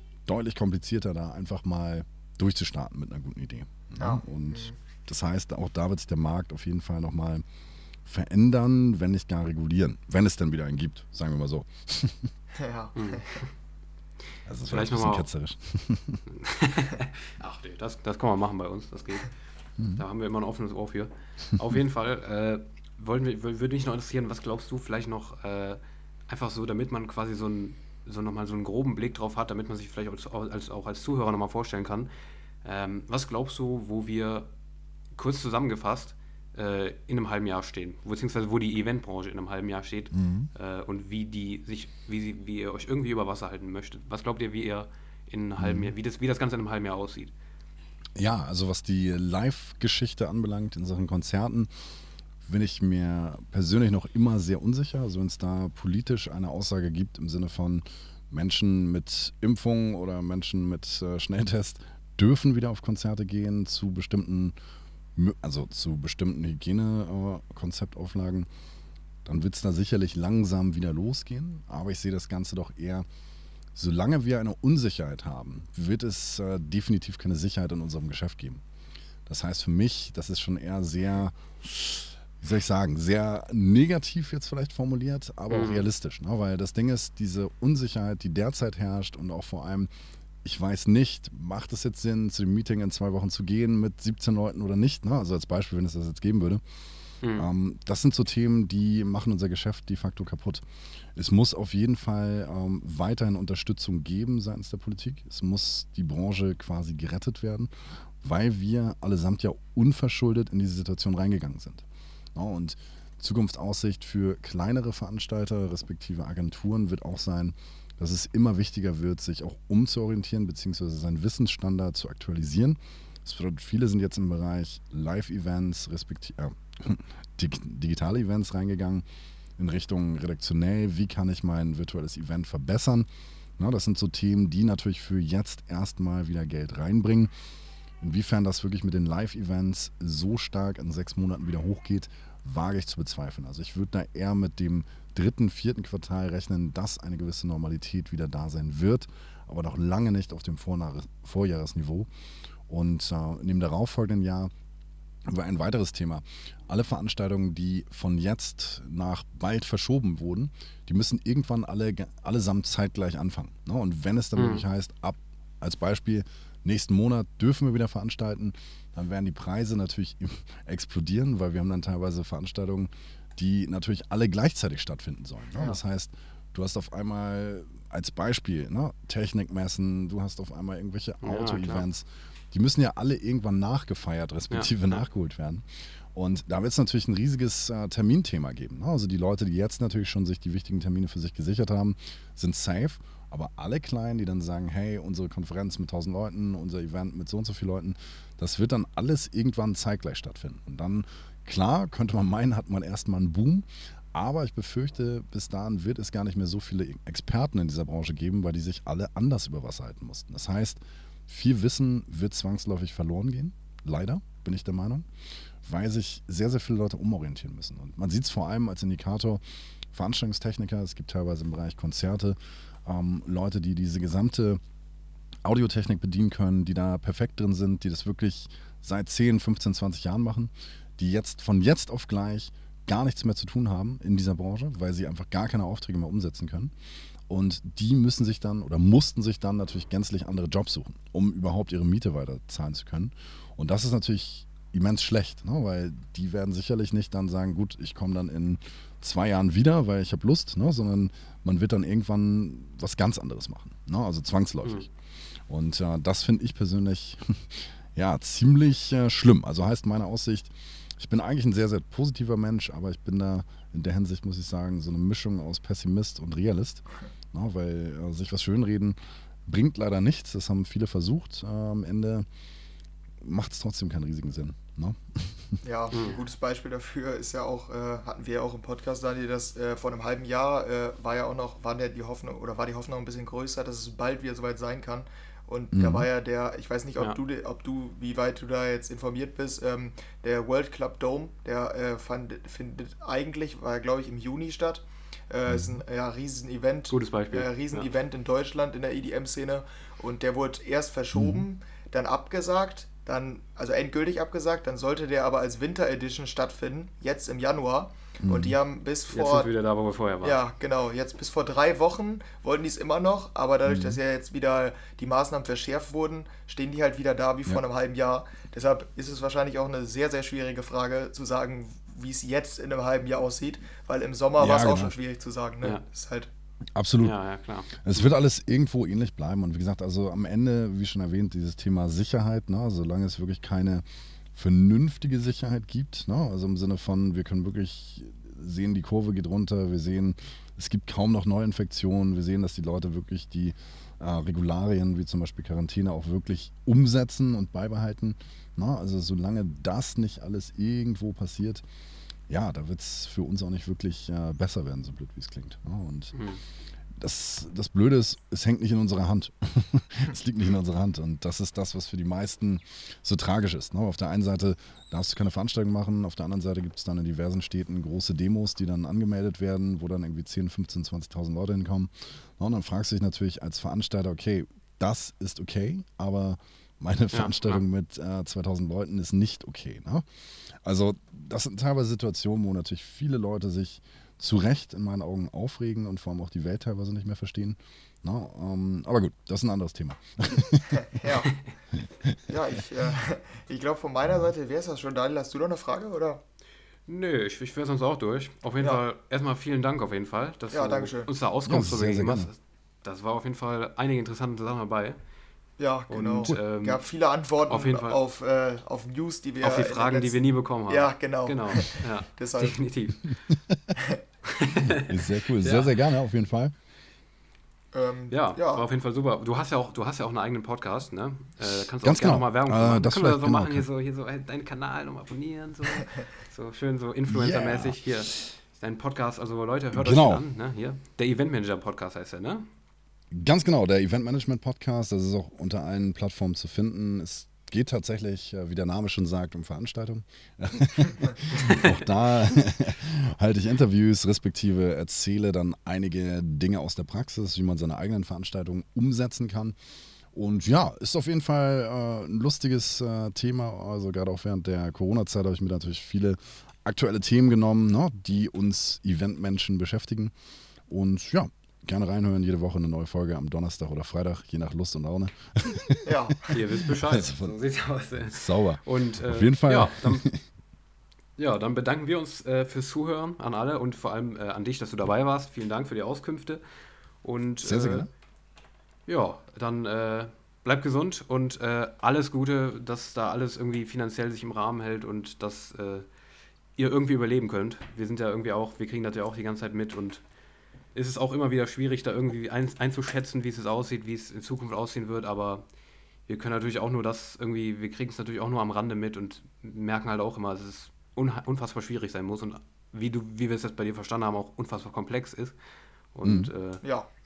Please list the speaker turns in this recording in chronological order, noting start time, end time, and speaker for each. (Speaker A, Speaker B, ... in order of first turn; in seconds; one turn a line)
Speaker A: 0.2-7.4
Speaker B: 4.0-4.7
Speaker A: 8.1-12.3
Speaker B: 12.5-13.4
Speaker C: 12.9-13.5
Speaker A: 14.4-16.2
Speaker C: 14.7-15.3
Speaker C: 16.3-19.3
Speaker C: 19.9-32.1
Speaker C: 32.6-34.5
Speaker C: 35.1-47.3
Speaker A: 40.1-40.5
Speaker A: 45.6-45.9
Speaker A: 48.1-51.7
Speaker A: 52.5-64.5
Speaker A: 65.2-68.5
Speaker A: 69.2-73.0
Speaker A: 73.7-78.6
Speaker A: 79.3-89.9
Speaker C: 85.5-85.9
Speaker A: 90.4-96.6
Speaker C: 97.2-97.5
Speaker A: 97.3-100.6
Speaker A: 101.1-107.7
Speaker A: 108.2-111.8
Speaker A: 112.3-129.0
Speaker A: 129.6-133.1
Speaker A: 133.6-137.3
Speaker A: 138.0-152.1
Speaker A: 152.7-154.5
Speaker A: 155.3-215.1
Speaker C: 164.3-164.6
Speaker C: 181.2-181.8
Speaker C: 184.5-185.0
Speaker A: 215.6-219.4
Speaker A: 219.9-224.6
Speaker A: 225.4-236.7
Speaker A: 237.3-254.9
Speaker A: 255.5-272.2
Speaker A: 273.2-275.6
Speaker B: 275.6-309.5
Speaker C: 275.9-276.2
Speaker A: 285.7-286.1
Speaker A: 295.5-295.8
Speaker C: 296.9-297.8
Speaker A: 301.1-301.4
Speaker A: 308.2-308.6
Speaker C: 309.1-310.4
Speaker B: 310.2-326.3
Speaker A: 313.6-314.0
Speaker A: 324.4-324.9
Speaker A: 326.7-327.1
Speaker C: 327.0-328.0
Speaker A: 327.7-351.6
Speaker A: 352.3-356.1
Speaker C: 356.1-356.4
Speaker A: 356.9-380.0
Speaker C: 377.1-377.6
Speaker A: 380.6-391.1
Speaker B: 390.7-391.3
Speaker A: 391.8-392.2
Speaker B: 392.3-396.2
Speaker C: 396.9-405.0
Speaker B: 400.5-401.1
Speaker A: 401.5-402.3
Speaker B: 405.6-410.2
Speaker C: 405.9-406.8
Speaker C: 407.5-408.0
Speaker C: 409.4-413.2
Speaker B: 410.7-412.6
Speaker A: 413.3-413.7
Speaker B: 413.7-414.0
Speaker C: 414.2-415.7
Speaker A: 414.6-416.5
Speaker B: 417.7-418.6
Speaker C: 418.1-432.4
Speaker A: 421.8-423.6
Speaker A: 427.1-428.2
Speaker A: 429.7-430.2
Speaker A: 433.1-449.6
Speaker C: 441.4-441.7
Speaker A: 450.1-460.1
Speaker A: 460.7-467.3
Speaker B: 465.8-466.3
Speaker C: 466.3-470.0
Speaker A: 468.0-470.2
Speaker C: 471.2-476.4
Speaker C: 477.0-477.9
Speaker A: 477.4-477.9
Speaker C: 478.9-485.9
Speaker C: 486.6-490.0
Speaker C: 490.7-495.4
Speaker C: 496.1-505.4
Speaker C: 505.9-506.6
Speaker A: 506.0-506.3
Speaker B: 506.6-506.9